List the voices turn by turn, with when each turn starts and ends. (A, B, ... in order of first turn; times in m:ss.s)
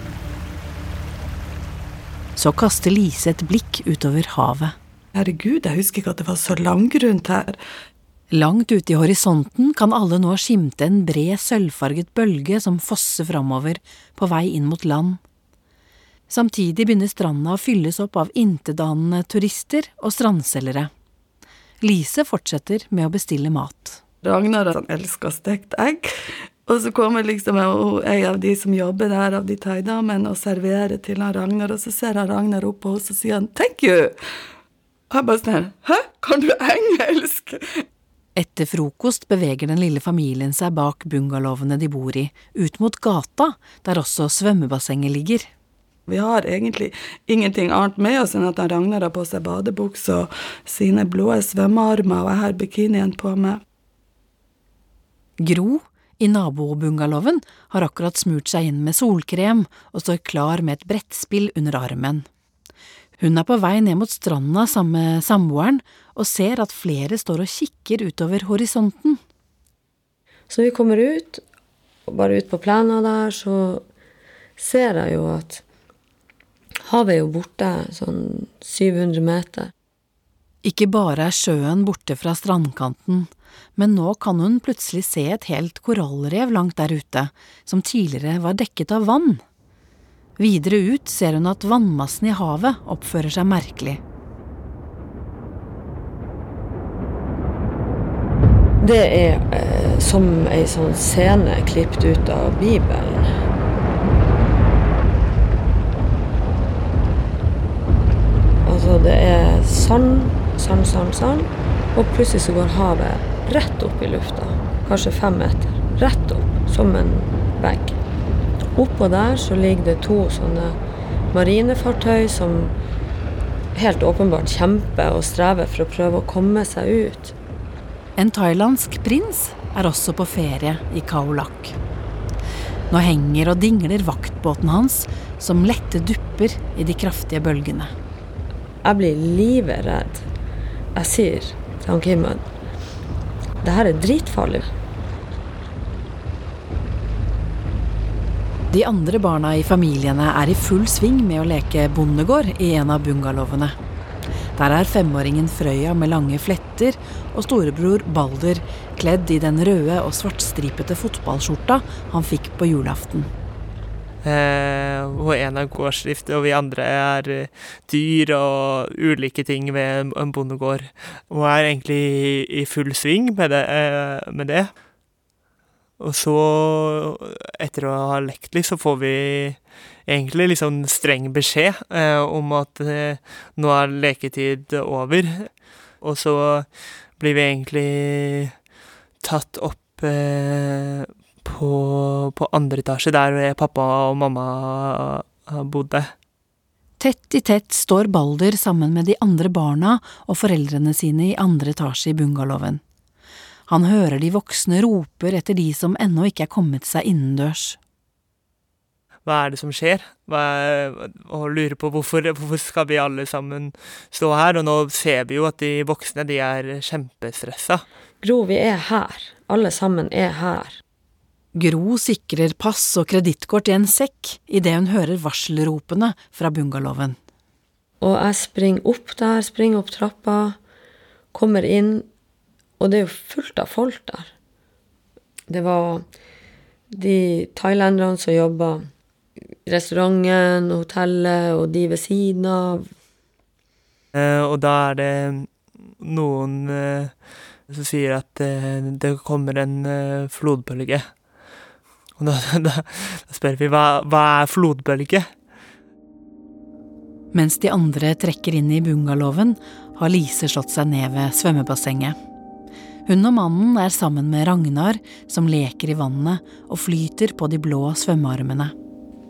0:02.4-0:04.8 A
0:05.2-0:07.6 B
0:08.3-0:15.2 A
0:16.3-0:20.9 A
0:21.8-0:24.0 A
0:24.2-0:34.2 B
0:35.1-0:37.8 B
0:38.4-0:45.5 A
0:46.1-0:53.6 B
0:55.4-1:02.3 A
1:03.2-1:09.2 A
1:10.5-1:11.4 C
1:12.1-1:13.8 C
1:14.6-1:15.6 C
1:16.9-1:19.7 C
1:20.6-1:29.4 A
1:30.4-1:34.0 A
1:38.8-1:43.3 C
1:48.6-1:58.0 C
1:58.8-2:00.8 C
2:01.3-2:02.8 C
2:03.8-2:07.4 C
2:08.2-2:11.8 A
2:12.9-2:17.9 A
2:18.8-2:20.3 C
2:21.0-2:22.4 C
2:23.6-2:24.7 C
2:28.7-2:33.8 A
2:34.6-2:43.3 A
2:44.2-2:54.7 D
2:56.0-3:08.6 D
3:09.2-3:16.1 D
3:17.0-3:22.8 A
3:23.7-3:27.8 A
3:29.2-3:37.8 D
3:38.2-3:40.8 C
3:41.6-3:47.2 A
3:48.0-3:50.6 C
3:51.3-3:52.1 C
3:52.8-3:54.3 C
3:55.5-3:56.0 C
3:56.9-3:58.9 C
3:59.6-4:02.9 C
4:04.1-4:11.5 D
4:12.2-4:15.3 D
4:17.3-4:22.2 A
4:23.1-4:28.7 A